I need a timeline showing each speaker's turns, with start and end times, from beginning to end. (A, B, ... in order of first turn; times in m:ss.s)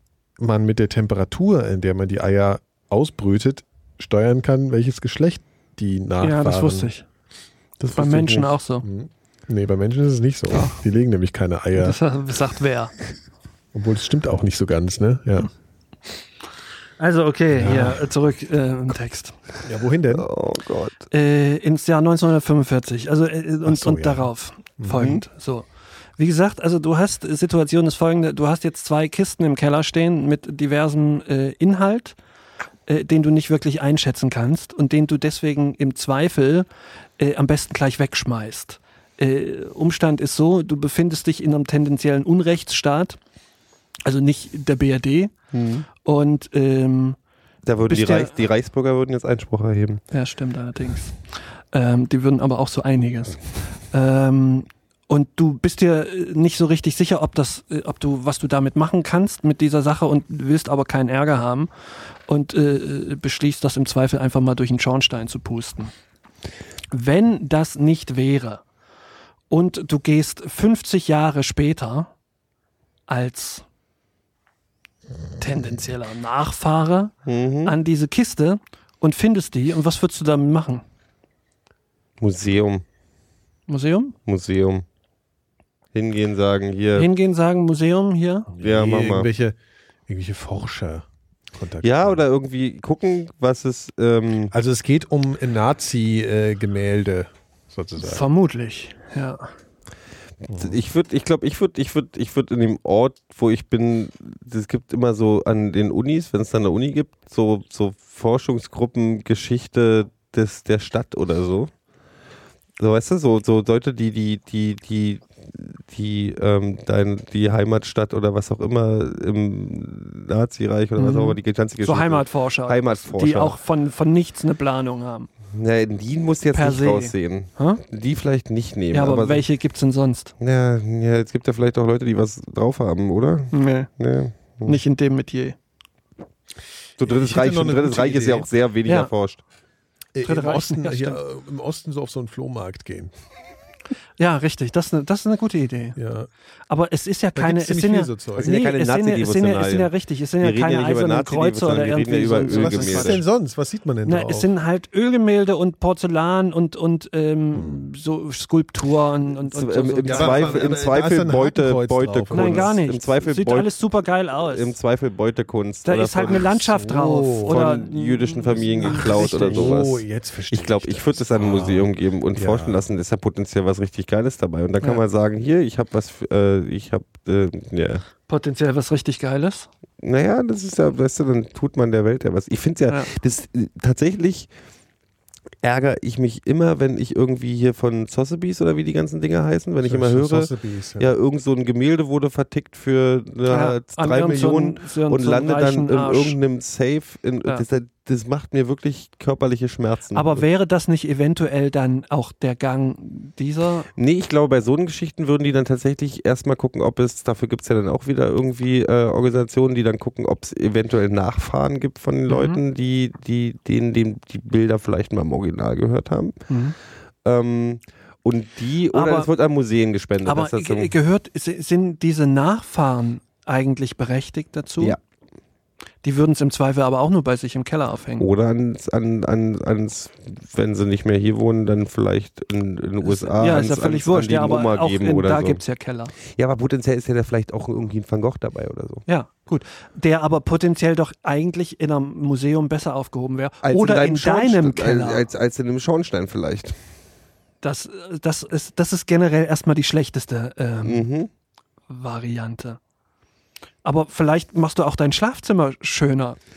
0:00.4-0:06.9 A
0:06.2-0:07.0 B
0:07.8-0:08.5 C
0:07.9-0:08.8 B
0:08.8-0:12.0 A
0:10.5-0:10.8 B
0:11.8-0:12.9 B
0:13.7-0:15.5 A
0:17.0-0:19.3 B
0:17.5-0:18.0 A
0:19.6-0:20.3 A
0:20.1-0:21.0 C
0:21.1-0:25.6 B
0:23.6-0:24.3 A
0:24.8-0:25.1 A
0:26.2-0:32.2 B
0:32.9-0:36.7 B
0:37.2-0:43.2 B
0:44.0-0:45.3 B
0:45.5-0:45.9 C
0:46.0-0:47.2 B
0:47.6-0:50.0 C
0:47.9-0:48.4 B
0:50.1-0:51.2 B
0:51.7-1:01.7 B
1:02.3-1:05.9 B
1:06.9-1:08.6 B
1:09.5-1:12.1 B
1:13.1-1:13.6 B
1:15.4-1:20.8 B
1:17.2-1:17.8 C
1:22.2-1:22.8 C
1:23.7-1:24.1 B
1:24.2-1:24.8 C
1:25.9-1:27.1 C
1:27.0-1:28.5 B
1:28.5-1:29.5 A
1:28.6-1:29.3 C
1:30.1-1:32.2 A
1:31.8-1:34.5 C
1:34.5-1:38.2 A
1:38.0-1:39.5 B
1:40.5-1:40.8 A
1:40.5-1:51.7 C
1:52.8-2:03.5 C
2:01.0-2:05.3 B
2:05.5-2:09.4 C
2:06.5-2:07.8 B
2:08.9-2:10.3 B
2:10.4-2:14.8 C
2:13.5-2:13.9 B
2:14.6-2:15.5 B
2:17.0-2:19.4 C
2:17.0-2:18.5 A
2:18.8-2:19.1 B
2:20.1-2:23.1 A
2:20.2-2:21.2 B
2:24.2-2:26.0 B
2:26.0-2:26.3 A
2:26.7-2:33.2 B
2:27.3-2:28.5 A
2:28.4-2:29.9 C
2:30.4-2:33.2 C
2:32.4-2:34.5 A
2:34.0-2:40.7 B
2:37.5-2:37.8 A
2:39.4-2:43.7 C
2:40.0-2:42.7 A
2:42.3-2:44.7 B
2:44.4-2:46.6 C
2:45.8-2:49.8 B
2:46.6-2:47.6 A
2:47.5-2:58.0 C
2:48.7-2:52.8 A
2:58.3-2:59.7 B
3:00.0-3:04.5 C
3:05.6-3:20.4 C
3:09.8-3:11.1 A
3:13.5-3:16.4 B
3:20.1-3:23.9 B
3:24.0-3:36.4 C
3:32.3-3:32.6 B
3:36.5-3:36.8 B
3:37.2-3:40.9 C
3:38.9-3:39.3 B
3:40.2-3:45.0 B
3:46.0-3:48.3 B
3:48.2-3:55.6 C
3:53.0-3:56.1 B
3:56.3-3:59.0 C
3:59.1-4:05.2 B
4:03.6-4:06.8 C
4:07.6-4:11.0 B
4:10.8-4:11.3 C
4:11.9-4:12.8 B
4:13.8-4:16.4 B